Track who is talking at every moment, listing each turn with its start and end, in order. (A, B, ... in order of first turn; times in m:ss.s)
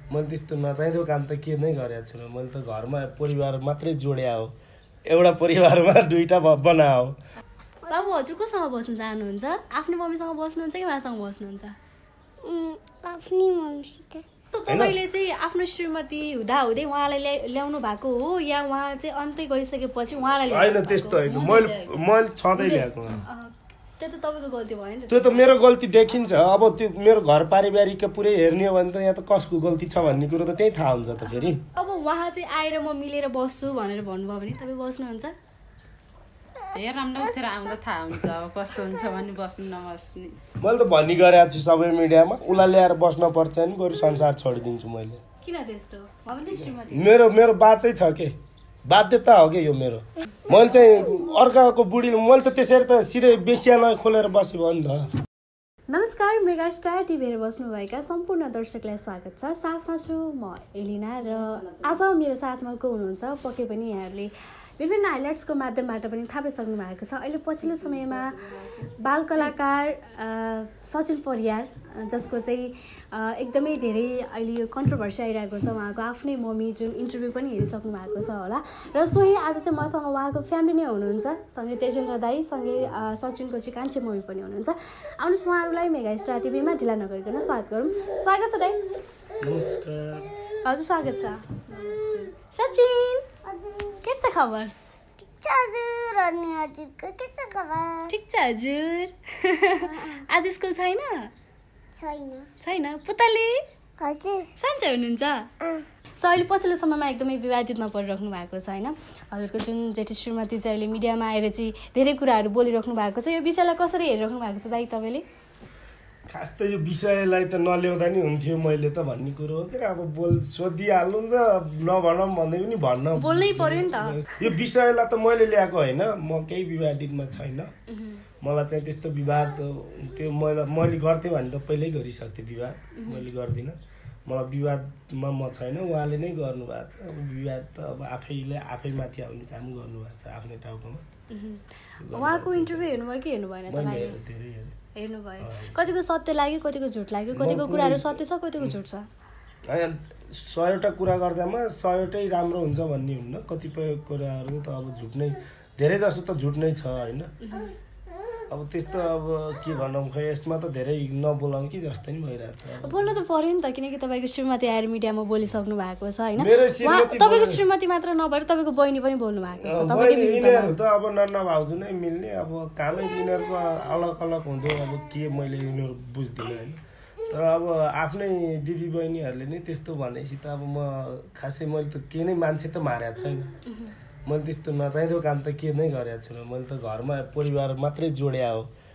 0:00.1-0:04.5 A
0:05.0-0:07.2 A
0:07.9-0:11.8 B
0:12.4-0:14.2 C
0:14.5-0:22.0 B
0:14.7-0:15.0 A
0:20.5-0:23.2 A
0:22.6-0:25.5 B
0:25.1-0:31.6 A
0:31.3-0:35.3 B
0:36.7-0:40.4 D
0:40.6-0:45.2 A
0:45.4-0:47.2 B
0:46.7-0:55.1 A
0:55.9-1:08.4 B
1:01.4-1:01.9 D
1:07.6-1:09.5 D
1:09.0-1:28.8 B
1:29.4-1:30.3 A
1:30.6-1:31.4 B
1:31.7-1:32.3 D
1:32.5-1:33.2 B
1:33.5-1:33.9 C
1:34.0-1:34.7 B
1:35.2-1:38.1 C
1:38.1-1:41.3 B
1:39.8-1:40.2 C
1:41.9-1:42.5 C
1:42.6-1:43.6 B
1:44.0-1:44.5 C
1:44.6-1:45.5 B
1:46.2-1:55.2 B
1:56.3-2:07.7 A
2:03.2-2:04.4 B
2:07.9-2:08.2 B
2:08.4-2:21.0 A
2:13.0-2:13.2 B
2:21.3-2:24.2 B
2:22.0-2:23.0 A
2:23.7-2:24.8 A
2:25.0-2:29.1 B
2:25.4-2:25.9 A
2:27.3-2:28.8 A
2:29.7-2:37.3 A
2:37.4-2:37.7 B
2:38.5-2:43.2 A
2:42.8-2:50.8 B
2:46.4-2:47.6 A
2:49.6-3:03.5 A
3:03.7-3:03.9 B
3:04.2-3:08.7 A